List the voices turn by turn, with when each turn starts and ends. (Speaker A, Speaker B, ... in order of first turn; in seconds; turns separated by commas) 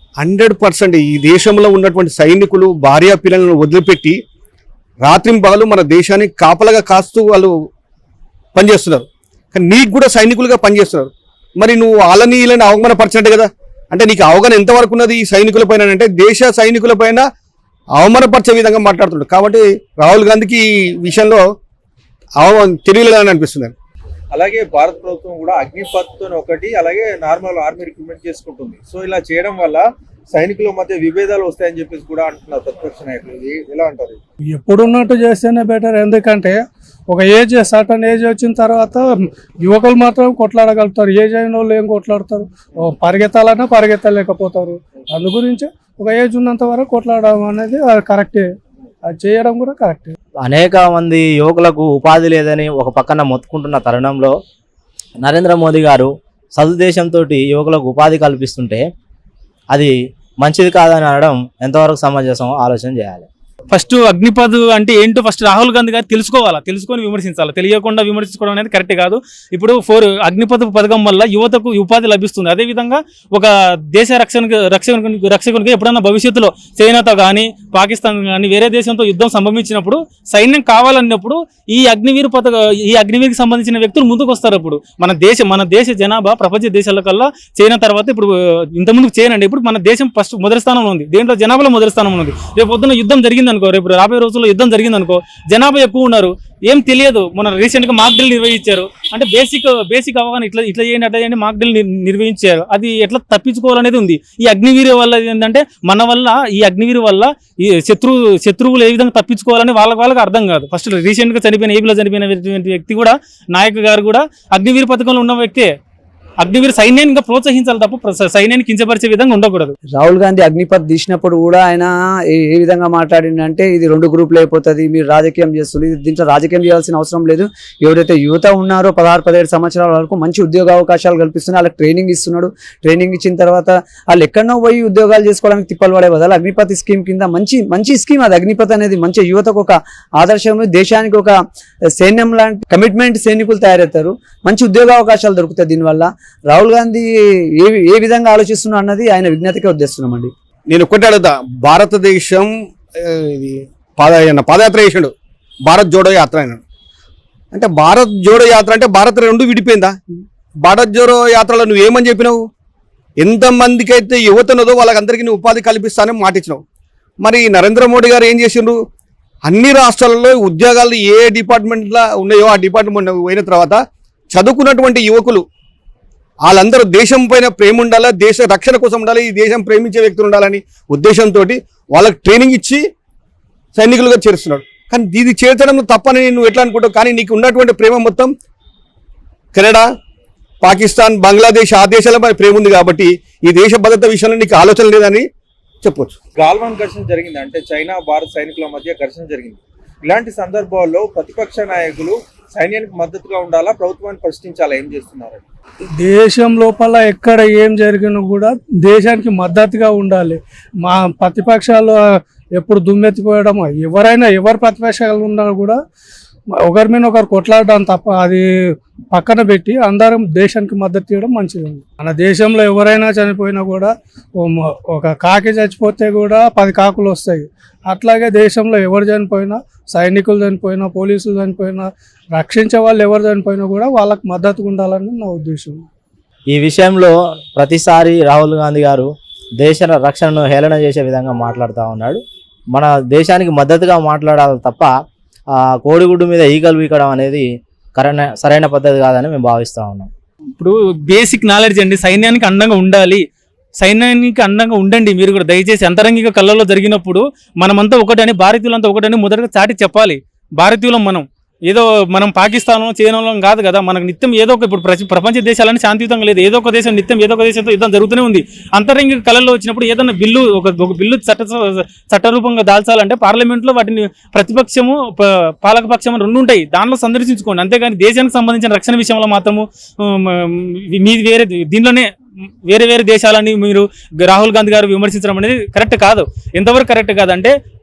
Speaker A: 0.2-4.2, Speaker A: 5.0-7.5, Speaker A: 8.6-17.2, Speaker A: 18.0-21.4, Speaker A: 22.4-23.7, Speaker B: 24.3-34.2, Speaker C: 34.5-39.1, Speaker C: 39.6-48.5, Speaker C: 49.1-50.2, Speaker D: 50.4-54.4, Speaker D: 55.2-58.9, Speaker D: 59.7-63.3, Speaker E: 63.7-115.7, Speaker E: 116.4-119.8, Speaker F: 119.9-141.4, Speaker F: 141.9-150.3, Speaker A: 150.7-152.5, Speaker A: 153.0-155.1, Speaker A: 155.7-156.6, Speaker A: 157.5-159.9, Speaker A: 160.6-162.4, Speaker A: 163.2-166.6, Speaker A: 167.2-168.8, Speaker A: 169.5-173.8, Speaker A: 174.3-175.4, Speaker A: 176.4-182.8, Speaker A: 183.8-188.3, Speaker A: 189.6-189.8, Speaker A: 190.6-195.2, Speaker A: 195.8-196.2, Speaker B: 196.4-205.4, Speaker C: 206.0-212.0, Speaker C: 212.6-215.8, Speaker C: 216.6-218.4, Speaker C: 219.1-235.8, Speaker D: 236.5-244.9, Speaker D: 245.5-250.1, Speaker E: 250.6-253.2, Speaker E: 253.8-282.1, Speaker E: 282.7-287.5